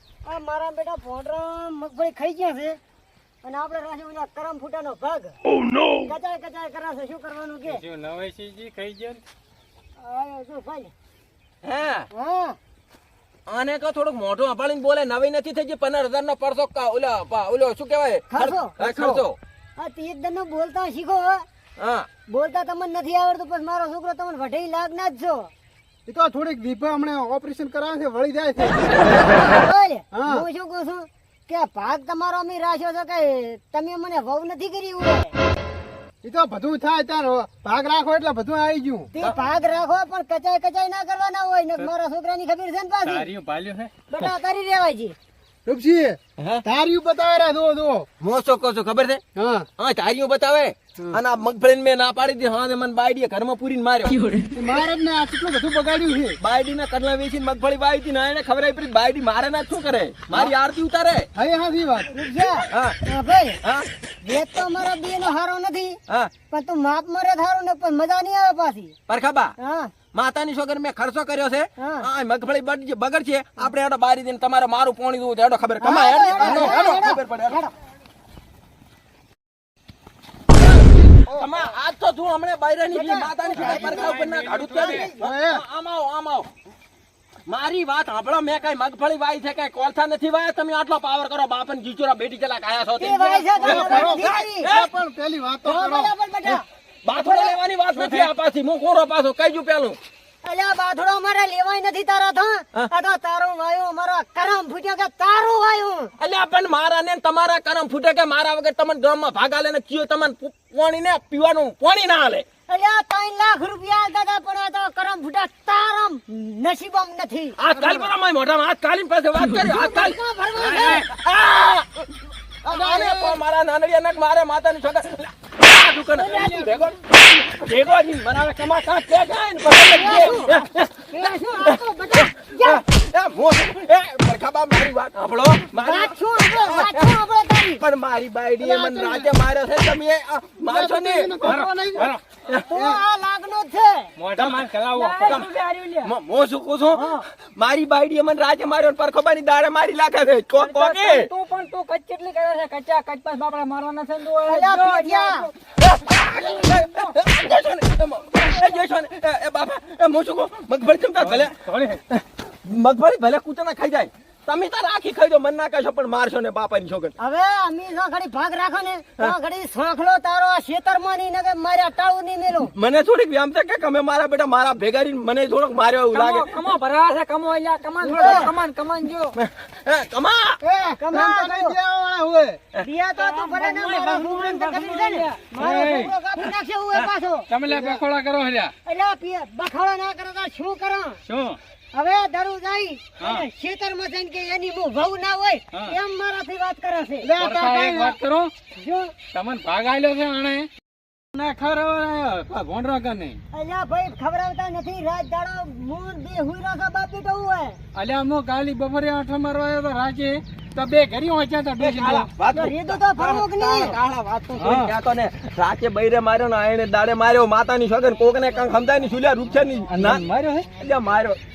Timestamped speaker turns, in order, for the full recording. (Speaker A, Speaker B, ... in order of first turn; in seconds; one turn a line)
Speaker A: 0.2-2.8
Speaker A: 3.4-5.4
Speaker B: 5.5-6.1
Speaker A: 6.0-7.8
Speaker C: 7.7-9.2
Speaker A: 10.0-10.9
Speaker B: 11.6-12.1
Speaker A: 12.1-12.6
Speaker B: 13.5-19.4
Speaker A: 18.3-18.8
Speaker D: 18.9-19.1
Speaker A: 19.8-21.5
Speaker B: 21.8-22.1
Speaker A: 22.3-25.5
Speaker D: 26.1-28.9
Speaker A: 29.2-35.4
Speaker D: 30.1-30.4
Speaker D: 36.2-39.1
Speaker A: 39.2-43.3
Speaker C: 43.0-43.9
Speaker A: 44.1-45.2
Speaker D: 45.7-48.1
Speaker B: 46.4-46.6
Speaker B: 48.2-49.2
Speaker D: 49.4-49.7
Speaker B: 49.8-54.3
Speaker D: 54.5-56.4
Speaker B: 56.4-61.3
Speaker D: 61.4-62.1
Speaker A: 62.1-63.6
Speaker B: 62.7-63.0
Speaker B: 63.6-63.9
Speaker A: 64.2-66.0
Speaker A: 66.5-69.0
Speaker B: 69.1-69.5
Speaker A: 69.6-69.9
Speaker B: 70.1-77.6
Speaker A: 71.8-72.1
Speaker A: 75.8-77.7
Speaker D: 76.4-76.9
Speaker D: 81.1-81.4
Speaker B: 81.2-86.5
Speaker A: 82.9-84.1
Speaker D: 83.6-83.9
Speaker C: 83.6-85.1
Speaker D: 85.0-85.6
Speaker B: 87.5-94.9
Speaker A: 93.0-94.7
Speaker D: 93.6-96.1
Speaker A: 95.6-96.6
Speaker B: 96.4-100.0
Speaker A: 97.2-98.2
Speaker A: 100.4-106.1
Speaker B: 106.2-112.5
Speaker A: 112.7-117.6
Speaker B: 117.6-137.1
Speaker A: 119.5-121.1
Speaker A: 122.7-123.3
Speaker A: 126.2-126.9
Speaker A: 129.8-132.8
Speaker A: 135.8-137.8
Speaker B: 137.8-141.4
Speaker D: 138.7-139.0
Speaker D: 140.7-142.1
Speaker C: 141.4-142.2
Speaker A: 142.7-144.1
Speaker D: 142.7-143.0
Speaker C: 144.2-145.4
Speaker B: 144.4-144.7
Speaker E: 144.4-146.1
Speaker B: 145.2-145.5
Speaker B: 146.0-151.3
Speaker E: 146.9-147.2
Speaker E: 150.6-155.5
Speaker A: 154.5-155.5
Speaker B: 155.8-161.6
Speaker C: 161.2-162.0
Speaker B: 162.1-167.2
Speaker A: 167.2-172.7
Speaker B: 172.6-176.5
Speaker E: 176.1-179.4
Speaker A: 178.1-178.5
Speaker B: 179.3-180.6
Speaker D: 180.6-182.6
Speaker A: 181.0-181.8
Speaker A: 182.8-187.5
Speaker E: 183.2-185.5
Speaker C: 185.6-186.1
Speaker C: 187.5-188.7
Speaker D: 187.7-188.0
Speaker A: 188.9-191.2
Speaker C: 191.3-191.6
Speaker A: 191.9-197.3
Speaker C: 193.2-193.5
Speaker D: 197.2-198.2
Speaker C: 197.4-198.5
Speaker A: 198.8-199.1
Speaker C: 199.3-200.7
Speaker C: 201.3-203.4
Speaker A: 203.5-207.8
Speaker C: 207.9-212.3
Speaker B: 211.8-221.4
Speaker A: 212.6-214.0
Speaker C: 214.6-214.9
Speaker C: 219.9-220.7